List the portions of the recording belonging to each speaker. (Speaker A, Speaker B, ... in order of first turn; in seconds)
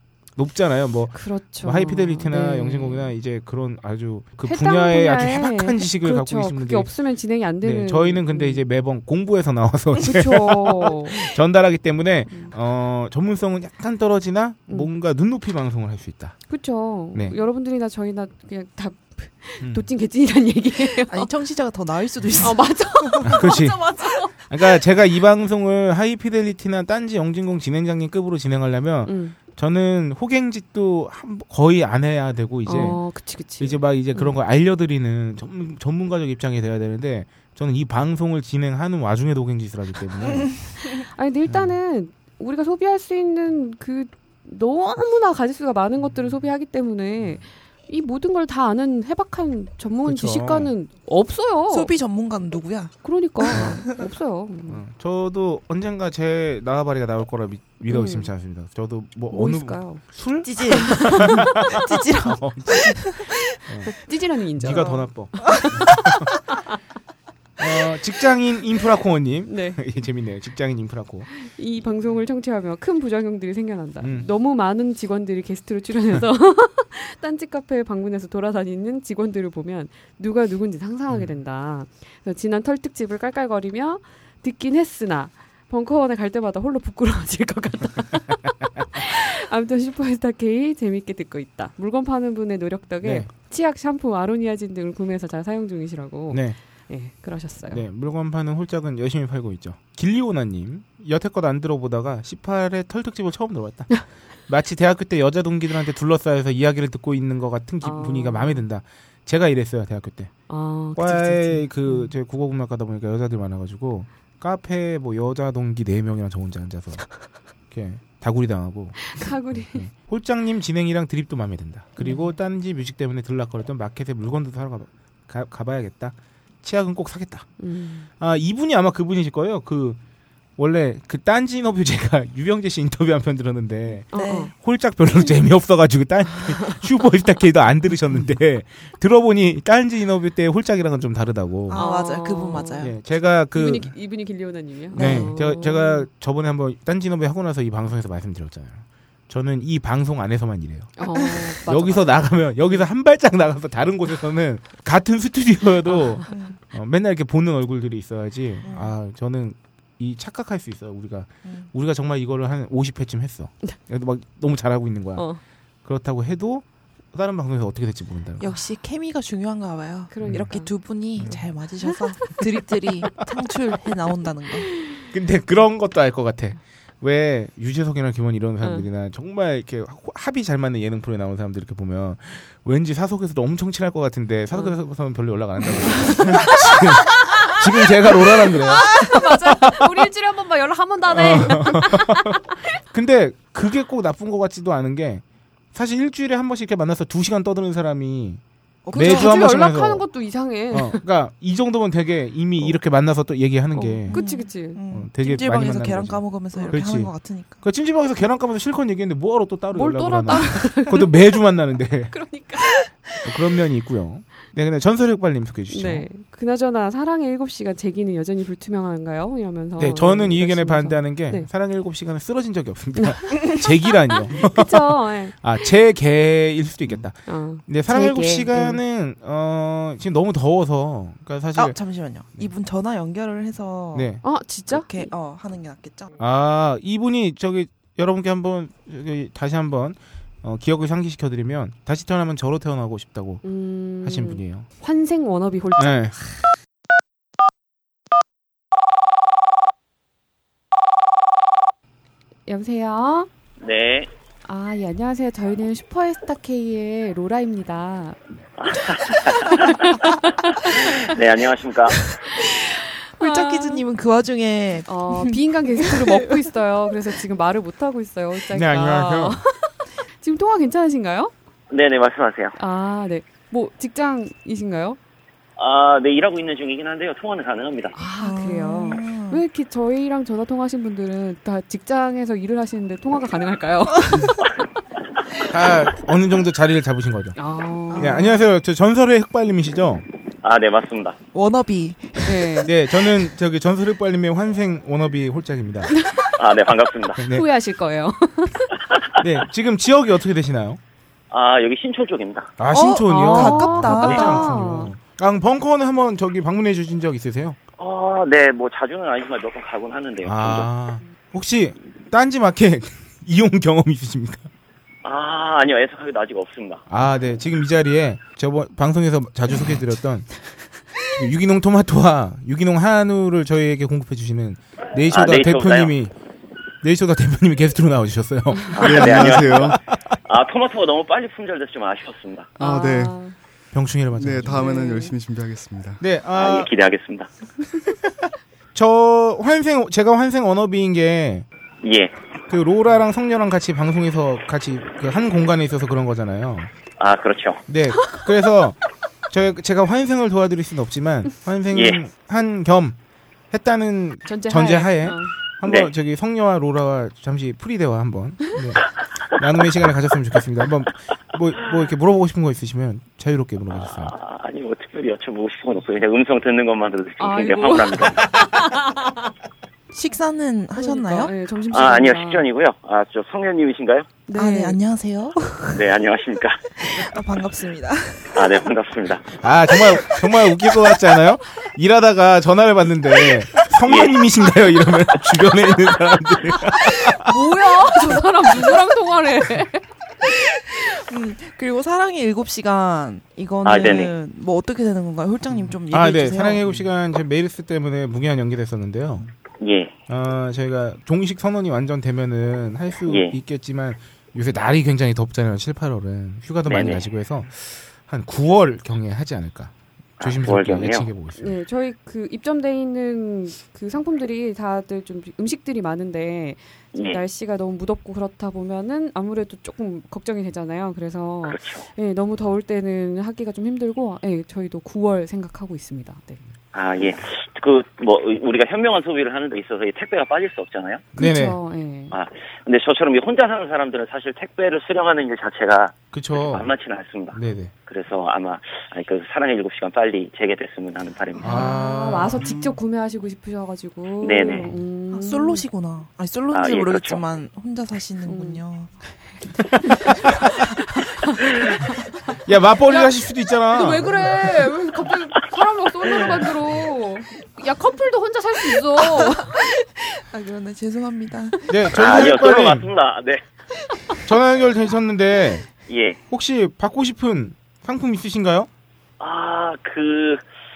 Speaker A: 0.4-6.9, 7.6-16.4, 17.1-17.4, 23.2-23.9, 24.5-33.0, 33.6-40.6, 41.5-41.8, 46.0-46.4, 50.0-50.7, 53.5-53.9, 54.7-64.0, 64.6-66.3, 67.6-71.3, 74.0-74.3, 81.1-81.3, 93.0-93.3, 96.3-96.6, 97.7-110.3, 110.9-117.1, 117.7-127.5, 128.2-130.0, 130.6-141.8, 142.8-143.9, 144.9-165.3, 165.8-168.5, 170.2-170.5, 175.1-190.1, 191.1-192.3, 192.9-200.1, 200.7-204.2, 204.9-212.2, 213.2-216.1, 219.8-231.8, 233.9-234.2, 236.2-243.4, 244.0-244.7, 245.8-246.2, 268.5-269.4, 285.5-287.4, 288.0-290.0, 292.6-295.9, 297.2-297.5, 299.2-300.8, 302.6-307.6, 310.2-314.5, 316.9-320.3, 321.1-326.1, 326.8-330.0, 333.7-334.7, 336.0-336.7, 338.7-341.5, 342.5-346.7, 347.7-348.8, 349.3-353.0, 353.5-364.1, 379.4-387.3, 395.5-399.3, 400.1-411.6, 431.2-431.6, 436.1-436.7, 437.3-437.7, 441.4-442.5, 449.8-450.4, 452.4-454.4, 461.7-462.9, 464.3-465.7, 466.3-468.7
Speaker B: 1.1-3.1, 4.5-8.6, 10.0-11.2, 16.5-21.3, 22.4-24.4, 29.1-29.4, 32.7-34.4, 40.8-51.9, 53.0-54.8, 57.9-58.3, 59.3-60.0, 60.9-63.1, 63.9-66.1, 69.5-69.8, 71.3-97.8, 107.8-108.7, 110.5-112.1, 119.1-119.9, 122.0-122.3, 127.6-128.1, 134.1-134.5, 136.3-136.9, 141.7-142.9, 143.5-146.1, 151.0-152.8, 165.2-165.4, 170.1-170.7, 171.8-172.7, 186.1-192.6, 198.9-201.0, 203.7-204.8, 206.5-206.8, 209.7-211.3, 212.1-212.9, 215.7-221.5, 224.4-225.4, 227.3-228.8, 234.2-235.1, 243.4-246.4, 252.5-253.3, 254.4-258.2, 259.5-260.7, 263.2-263.8, 264.9-271.3, 272.6-275.0, 277.9-284.4, 287.4-288.4, 292.2-292.7, 295.9-296.2, 297.2-298.7, 303.1-304.9, 332.6-333.4, 334.5-335.1, 354.3-355.3, 367.2-369.1, 370.8-372.4, 374.3-374.8, 386.9-389.8, 411.4-426.4, 431.2-432.1, 441.4-445.6, 448.3-448.6, 452.9-453.1, 453.7-459.5
Speaker C: 21.1-23.5, 51.7-53.9, 60.4-62.0, 64.7-65.7, 134.1-134.5, 141.7-142.9, 144.9-145.3, 156.3-156.6, 158.7-158.9, 168.4-174.7, 198.8-199.5, 204.1-207.6, 231.6-236.1, 262.1-262.5, 263.2-266.5, 278.2-279.4, 287.9-288.4, 291.3-292.6, 302.7-304.7, 369.9-371.3, 374.3-375.9, 376.8-378.7, 379.8-380.3, 390.2-396.8, 445.1-449.1, 459.0-461.7
Speaker D: 253.6-254.1, 258.6-259.7, 260.6-262.0, 271.7-272.6, 275.6-277.9, 290.4-291.2, 296.4-297.2, 299.0-299.3, 301.3-302.6, 307.8-310.7, 315.0-316.8, 325.1-325.9, 328.7-329.7, 330.3-332.5, 336.3-337.3, 341.8-342.2, 347.0-347.6, 351.7-352.0, 355.6-355.9, 363.7-368.2, 371.7-374.2, 375.7-376.6, 378.4-379.2, 383.9-384.2, 393.6-394.1, 399.6-399.9, 403.1-403.4, 406.7-407.1, 410.2-411.1, 416.9-417.2, 421.5-421.9, 426.7-431.1, 432.1-441.7, 444.2-444.7, 446.5-447.2, 461.9-463.4, 465.9-466.2, 469.2-470.4
Speaker E: 328.8-329.8, 332.6-333.2, 334.1-336.0